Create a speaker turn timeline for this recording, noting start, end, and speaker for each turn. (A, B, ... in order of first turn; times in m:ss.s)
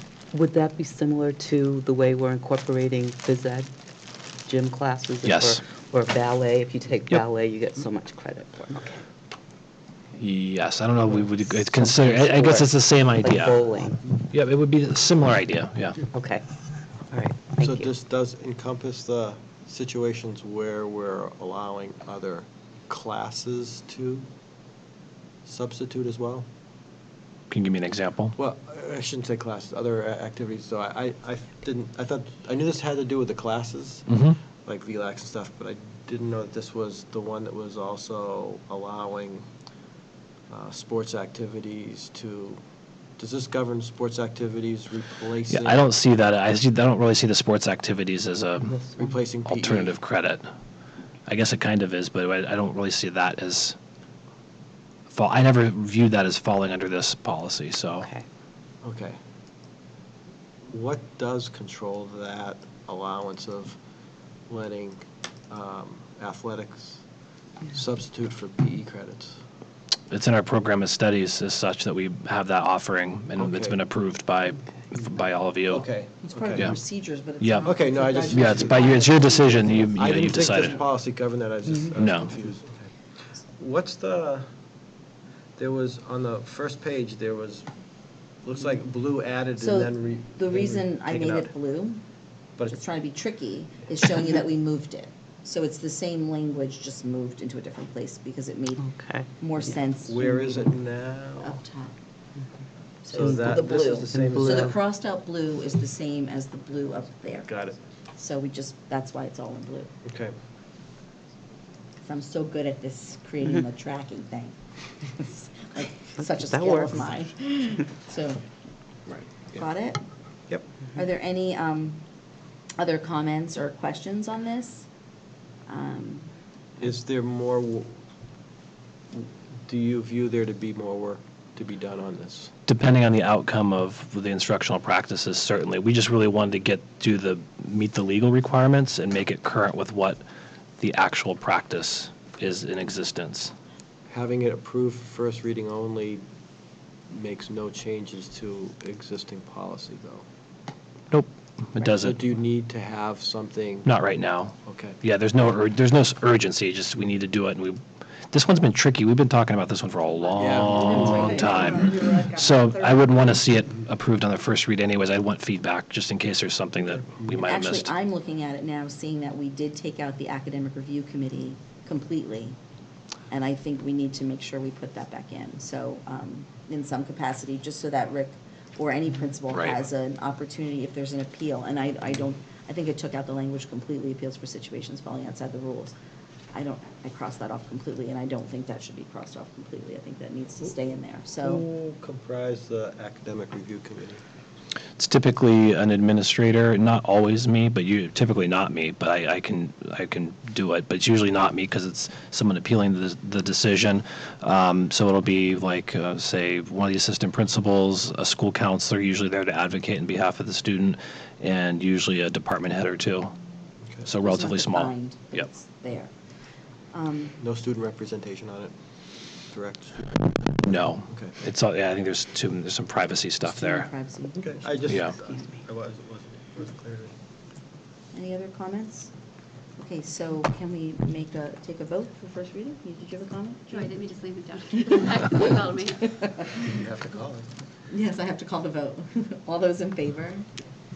0:00.3-0:03.7 A
0:04.5-0:09.0 A
0:05.2-0:05.6 B
0:10.2-0:16.1 B
0:11.5-0:14.1 A
0:16.1-0:16.4 A
0:17.1-0:17.9 A
0:17.6-0:24.3 C
0:25.4-0:26.5 C
0:27.5-0:28.4 B
0:28.4-0:39.4 C
0:34.1-0:34.4 B
0:40.5-0:42.6 C
0:43.2-0:45.9 C
0:45.5-0:48.8 B
0:48.7-0:49.1 A
0:48.9-0:50.0 C
0:49.5-0:50.5 B
0:51.3-0:53.8 B
0:55.1-0:58.1 B
0:58.0-0:58.2 A
0:58.8-0:59.2 C
1:00.7-1:03.8 C
1:04.5-1:07.0 C
1:07.7-1:09.4 C
1:10.1-1:15.9 B
1:13.4-1:13.8 C
1:15.7-1:16.8 C
1:16.2-1:20.0 D
1:17.4-1:17.7 B
1:17.6-1:19.1 C
1:18.3-1:20.8 B
1:20.0-1:22.9 C
1:22.0-1:22.3 B
1:23.6-1:24.5 C
1:25.6-1:27.7 C
1:28.4-1:31.5 C
1:29.6-1:32.0 D
1:32.7-1:40.7 D
1:38.8-1:39.7 A
1:40.0-1:41.6 C
1:41.4-1:42.0 D
1:43.0-1:47.5 D
1:43.1-1:44.8 C
1:43.2-1:43.5 A
1:44.1-1:44.8 A
1:47.5-1:47.8 C
1:48.2-1:49.9 D
1:50.0-1:50.4 C
1:52.0-1:58.4 D
1:56.2-1:57.0 A
1:59.5-2:00.0 D
2:01.0-2:02.0 D
2:02.8-2:04.9 D
2:05.7-2:06.3 D
2:06.8-2:08.0 C
2:09.1-2:12.5 C
2:12.7-2:20.2 B
2:20.8-2:23.5 B
2:24.1-2:26.2 C
2:27.1-2:30.3 C
2:31.1-2:32.2 B
2:31.9-2:33.9 C
2:33.9-2:37.8 B
2:34.6-2:35.0 C
2:38.3-2:47.9 B
2:40.4-2:42.0 C
2:40.4-2:43.2 D
2:47.4-2:52.6 D
2:53.3-3:06.0 D
2:59.5-2:59.8 B
3:06.5-3:11.7 D
3:11.4-3:14.2 C
3:15.0-3:33.4 B
3:34.0-3:35.5 B
3:34.2-3:36.1 D
3:36.9-3:37.4 D
3:37.4-3:38.7 C
3:39.5-3:41.3 C
3:40.6-3:43.9 B
3:43.4-3:45.3 D
3:44.4-3:47.2 C
3:44.9-3:45.2 B
3:48.1-3:49.1 D
3:49.8-3:54.1 D
3:53.7-3:56.2 E
3:54.8-3:56.4 D
3:56.6-3:57.5 C
3:57.9-4:00.5 D